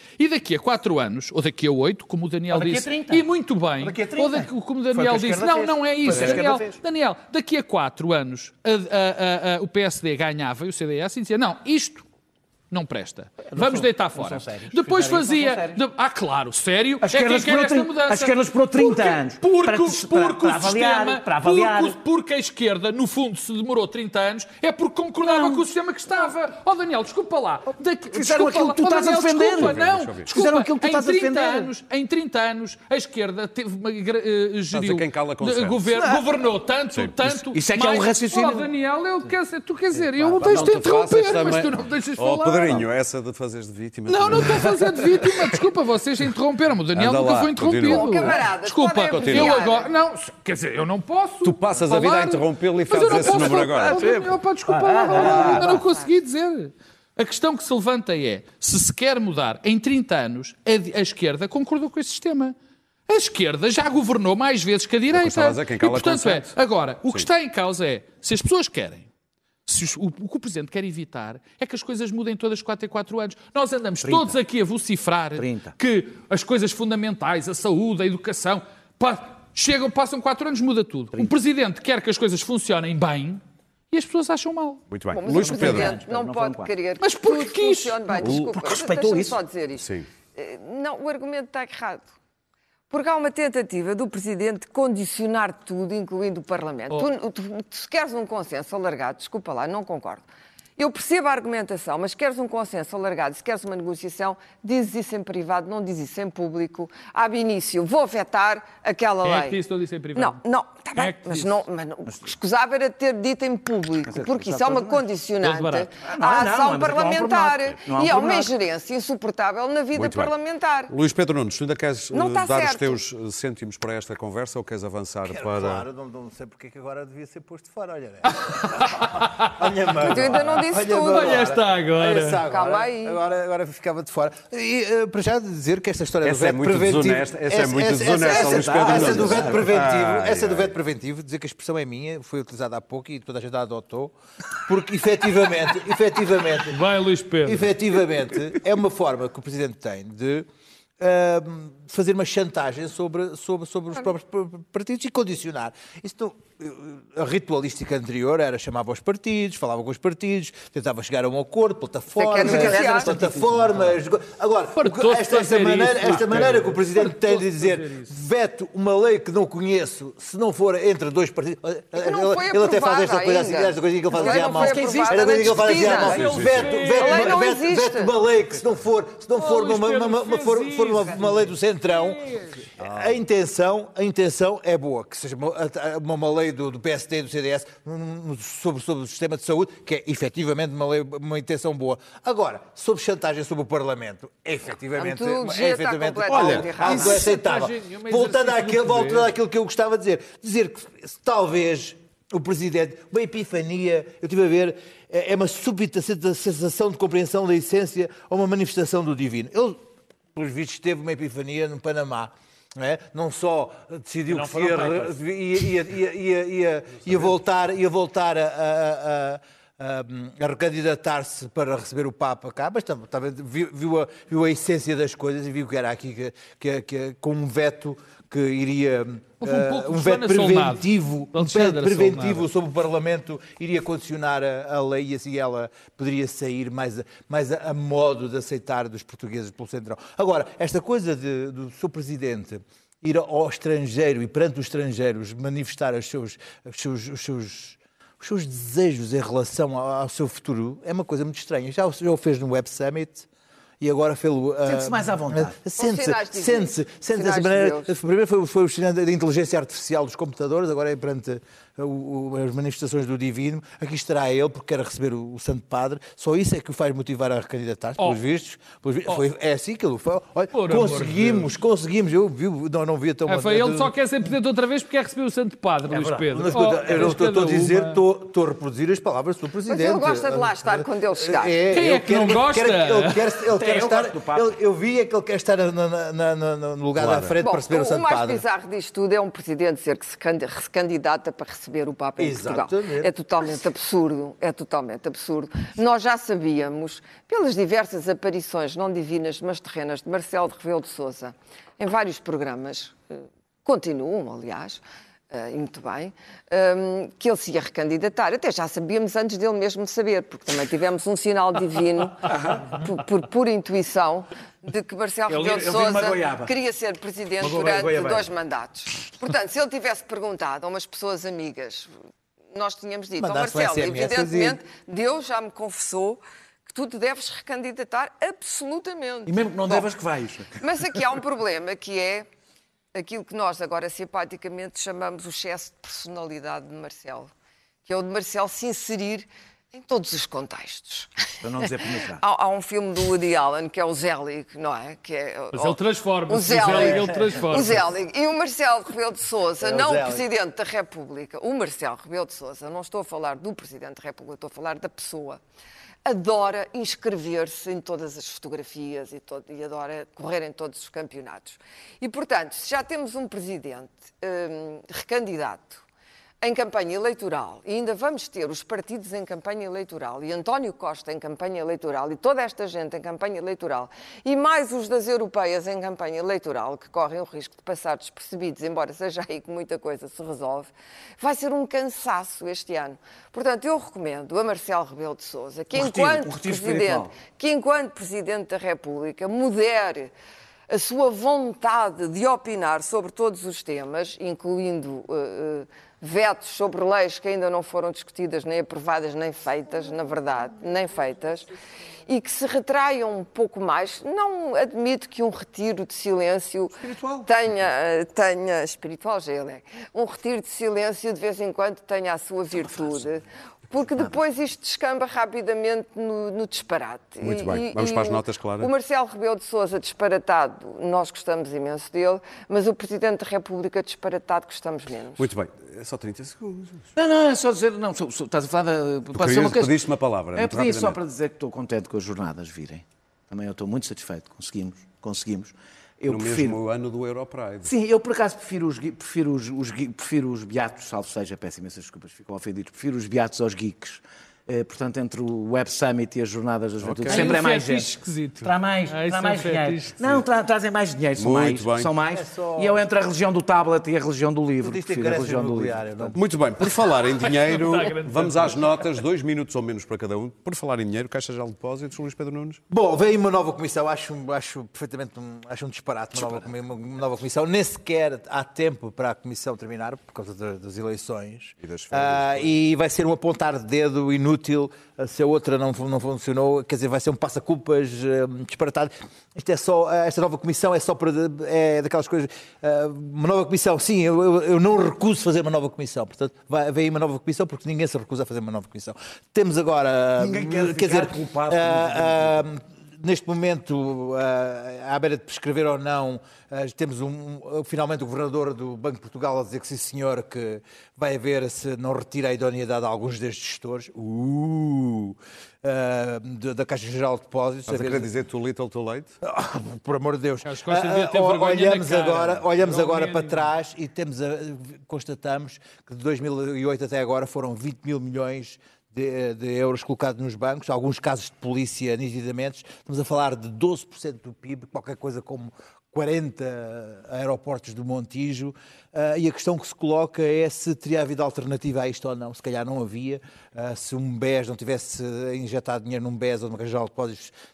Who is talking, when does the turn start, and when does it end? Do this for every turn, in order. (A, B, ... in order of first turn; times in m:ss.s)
0:00.2-0:12.0 A
0:02.5-0:03.3 B
0:03.8-0:06.8 B
0:12.7-0:42.8 A
0:13.5-0:15.8 B
0:17.0-0:22.0 B
0:25.2-0:25.7 B
0:28.1-0:31.7 B
0:29.5-0:30.3 C
0:34.7-0:35.9 C
0:36.9-0:37.2 C
0:37.5-0:38.7 B
0:40.2-0:40.7 B
0:40.4-0:45.0 C
0:44.1-1:02.6 A
0:46.9-0:48.5 C
0:47.8-0:49.9 D
0:49.0-0:49.6 C
0:51.4-0:54.0 C
0:53.0-0:55.9 B
0:55.3-0:56.1 D
1:03.1-1:09.1 A
1:05.1-1:07.3 C
1:09.6-1:24.8 A
1:14.0-1:14.4 B
1:15.4-1:15.8 B
1:24.9-1:26.0 C
1:25.1-1:32.1 D
1:25.3-1:26.7 B
1:27.0-1:28.4 A
1:28.2-1:29.4 B
1:29.8-1:30.1 C
1:32.9-1:40.2 D
1:40.8-1:49.6 D
1:49.2-1:50.4 A
1:50.2-2:00.9 D
1:50.9-1:51.6 A
1:52.0-1:52.3 B
1:54.0-1:55.0 B
1:55.4-1:55.9 A
1:56.0-1:58.5 B
1:59.9-2:00.3 C
2:00.9-2:05.8 C
2:02.1-2:03.0 D
2:05.2-2:24.1 E
2:10.0-2:11.4 D
2:11.0-2:12.4 A
2:12.4-2:13.2 D
2:16.2-2:20.7 C
2:18.4-2:19.8 B
2:24.7-2:26.8 E
2:26.7-2:27.7 A
2:27.4-2:30.5 E
2:31.0-3:02.2 E
2:42.1-2:43.1 D
2:42.4-2:44.0 B
2:44.8-2:48.1 A
2:51.9-2:56.1 D
2:54.3-2:55.3 B
2:54.7-2:57.4 A
2:56.0-2:56.8 C
2:56.9-2:58.1 D
2:59.3-3:02.7 A
3:02.8-3:03.2 C
3:02.8-4:13.3 E
3:15.0-3:17.3 D
3:16.3-3:19.3 A
3:34.3-3:35.1 A
3:49.4-3:52.5 A
4:13.8-4:33.9 E
4:14.6-4:15.6 B
4:15.8-4:17.9 D
4:30.5-4:31.5 A
4:33.2-4:38.0 A
4:35.9-4:48.4 E
4:39.7-4:41.6 D
4:41.7-4:43.2 A
4:43.5-4:44.5 B
4:47.0-4:47.4 C
4:47.4-5:03.0 D
4:52.2-4:53.1 E
5:03.6-5:21.9 D
5:12.2-5:12.8 B
5:15.3-5:16.5 B
5:17.4-5:18.3 B
5:22.5-5:29.9 D
5:23.2-5:24.6 E
5:29.2-5:30.6 B
5:30.6-5:32.3 D
5:32.9-5:37.3 D
5:37.8-5:55.4 D
5:41.4-5:42.2 B
5:45.5-5:47.8 A
5:49.6-5:50.2 E
5:56.0-6:05.8 D
6:06.4-6:30.1 D
6:25.7-6:27.1 B
6:30.7-6:41.5 D
6:42.1-7:05.2 D
6:46.9-6:47.2 B
6:52.5-6:53.1 B
6:57.2-6:58.7 C
7:05.2-7:06.9 C
7:07.0-7:16.6 B
7:09.1-7:11.0 C
7:16.1-7:17.7 C
7:17.6-7:27.9 B
7:26.8-7:27.3 C
7:27.0-7:30.0 A
7:28.4-7:36.2 B
7:31.2-7:31.9 C
7:32.1-7:32.8 E
7:34.6-7:36.2 E
7:36.1-7:42.6 C
7:37.2-7:38.8 A
7:42.7-8:28.1 E
7:51.6-7:52.6 C
8:10.2-8:12.4 B
8:27.7-8:29.2 C
8:29.2-8:57.3 E
8:30.4-8:33.5 A